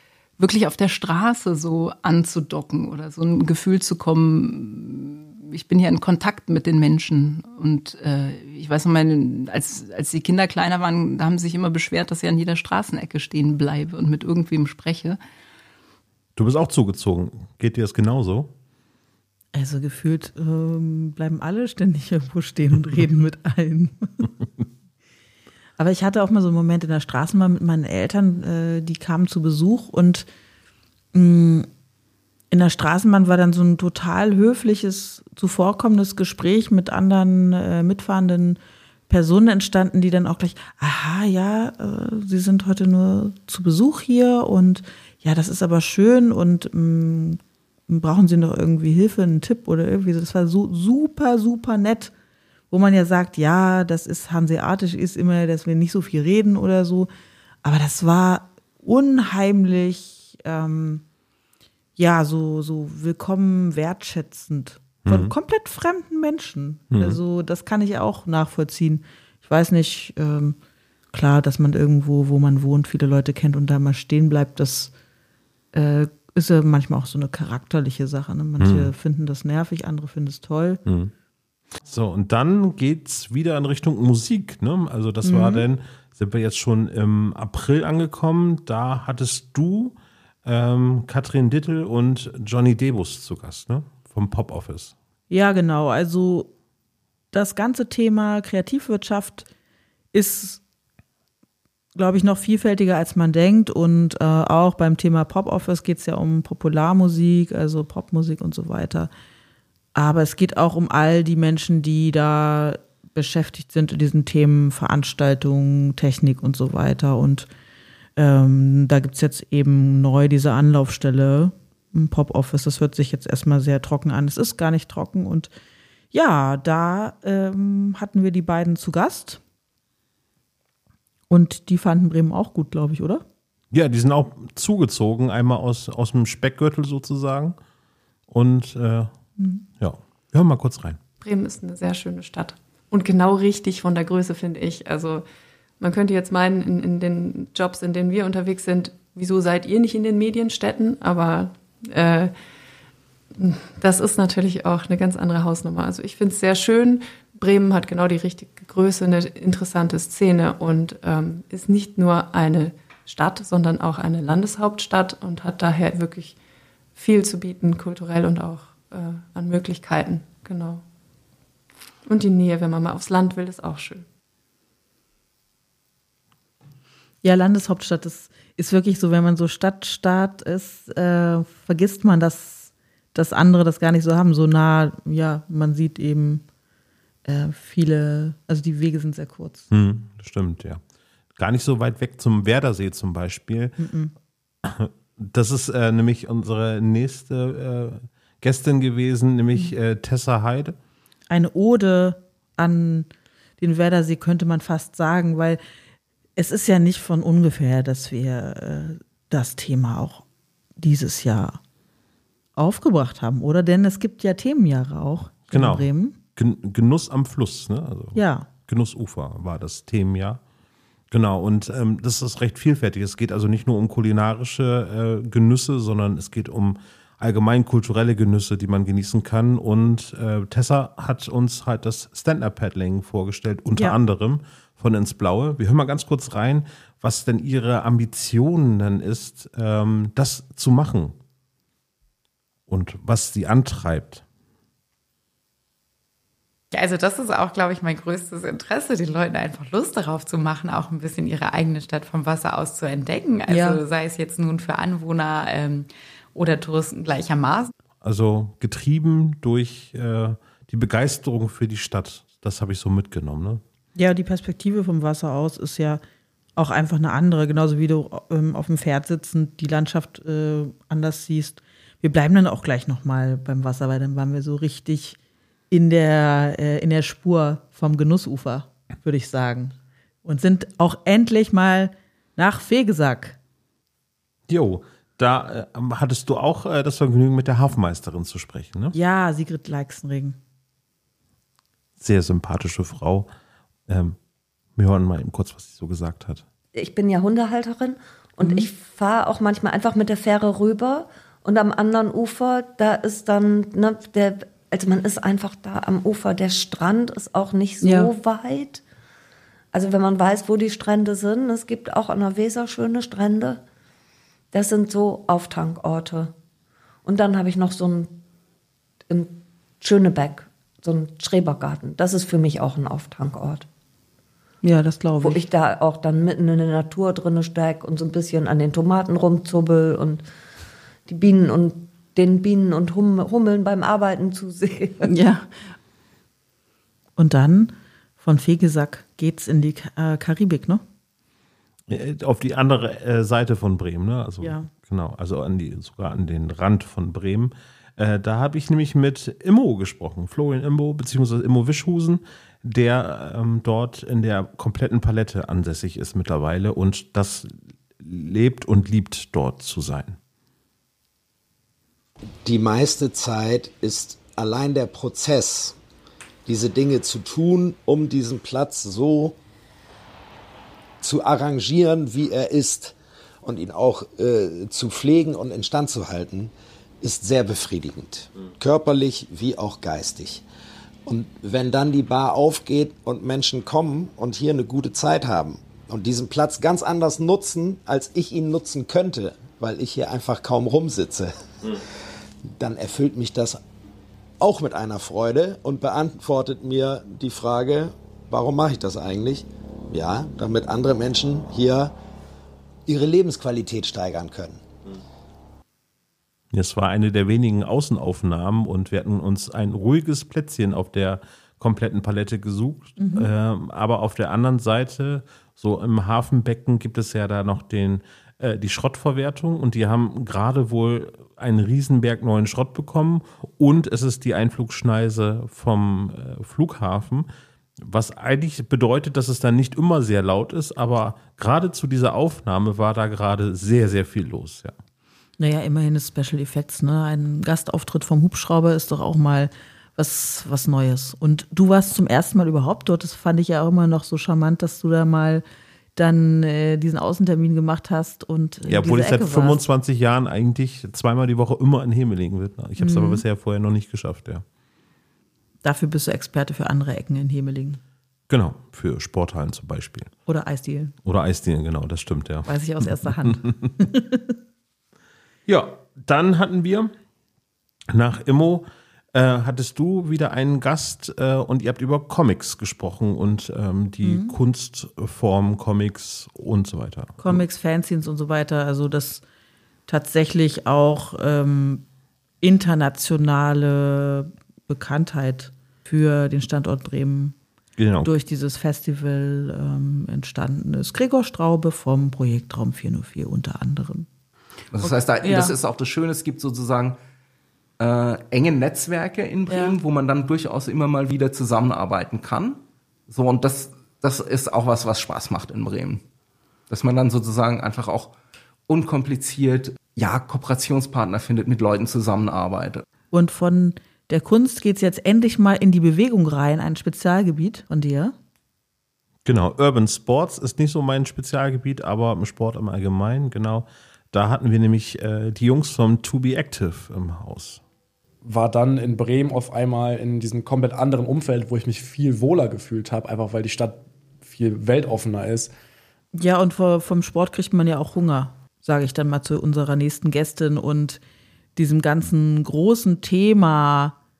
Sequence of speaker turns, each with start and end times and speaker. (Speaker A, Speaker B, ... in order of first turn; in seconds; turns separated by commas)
Speaker A: 0.4-15.2, Speaker B: 16.4-18.5, Speaker C: 19.5-24.3, Speaker C: 25.8-30.2, Speaker C: 31.1-31.7, Speaker C: 32.5-52.1, Speaker C: 52.7-57.1, Speaker C: 57.6-61.0, Speaker C: 62.0-70.5, Speaker B: 65.0-65.3, Speaker B: 66.9-67.2, Speaker C: 71.1-74.9, Speaker C: 75.7-80.8, Speaker B: 78.6-78.9, Speaker B: 80.8-81.1, Speaker B: 81.8-94.9, Speaker C: 85.2-85.6, Speaker C: 95.3-96.5, Speaker C: 97.3-99.5, Speaker C: 100.1-100.6, Speaker C: 102.0-109.1, Speaker C: 109.9-117.5, Speaker C: 118.2-125.5, Speaker C: 126.1-129.4, Speaker C: 131.3-133.2, Speaker B: 133.7-137.6, Speaker B: 138.3-139.1, Speaker C: 139.4-139.6, Speaker B: 139.8-141.0, Speaker D: 141.2-145.2, Speaker D: 145.8-152.3, Speaker D: 153.3-166.4, Speaker D: 166.9-170.8, Speaker D: 172.0-174.0, Speaker C: 177.2-186.4, Speaker C: 187.2-189.7, Speaker B: 189.7-190.8, Speaker B: 191.3-193.8, Speaker C: 193.8-194.1, Speaker B: 194.6-200.8, Speaker C: 201.3-203.1, Speaker C: 203.6-205.6, Speaker C: 206.3-210.2, Speaker C: 210.8-211.6, Speaker C: 212.6-216.2, Speaker B: 215.5-220.4, Speaker C: 218.1-218.5, Speaker B: 221.1-241.2, Speaker B: 242.7-244.2, Speaker E: 246.7-257.7, Speaker C: 253.5-253.8, Speaker B: 258.0-263.6, Speaker C: 263.9-266.0, Speaker C: 266.6-275.2, Speaker C: 275.7-279.7, Speaker C: 280.2-283.4, Speaker B: 284.5-288.9, Speaker C: 288.9-290.4, Speaker B: 292.0-293.3, Speaker B: 293.9-294.2, Speaker B: 294.8-296.4, Speaker F: 296.7-308.8, Speaker C: 298.4-298.7, Speaker C: 307.8-308.1, Speaker F: 309.7-313.6, Speaker F: 314.5-316.3, Speaker F: 317.0-318.2, Speaker F: 319.1-323.7, Speaker C: 324.6-325.4, Speaker F: 325.2-330.2, Speaker F: 331.1-335.1, Speaker C: 335.0-335.5, Speaker C: 337.2-340.8, Speaker B: 341.9-360.2, Speaker C: 344.4-344.7, Speaker G: 362.4-365.8, Speaker G: 366.4-369.4, Speaker G: 371.0-380.4, Speaker G: 381.1-391.8, Speaker G: 392.6-393.6, Speaker G: 394.4-401.9, Speaker G: 402.9-404.6, Speaker B: 406.5-427.3, Speaker C: 413.0-413.3, Speaker B: 427.8-434.8, Speaker C: 435.4-445.4, Speaker C: 445.9-449.6, Speaker B: 448.6-454.4, Speaker C: 452.8-453.2, Speaker C: 455.6-457.8, Speaker B: 458.3-460.1, Speaker C: 460.3-460.9, Speaker B: 461.0-463.5, Speaker C: 462.4-464.3, Speaker B: 465.4-466.9, Speaker B: 467.9-477.4, Speaker C: 474.0-474.3, Speaker C: 477.2-479.2, Speaker C: 479.9-481.8, Speaker C: 482.4-487.3, Speaker B: 487.8-488.1, Speaker C: 488.0-494.1, Speaker H: 494.7-497.0, Speaker C: 494.8-495.5, Speaker H: 497.8-506.0, Speaker C: 499.5-499.8, Speaker H: 506.7-508.1, Speaker H: 508.7-512.8, Speaker C: 513.1-518.1, Speaker B: 519.2-527.6, Speaker I: 528.2-535.5, Speaker C: 536.1-541.0, Speaker C: 541.5-544.0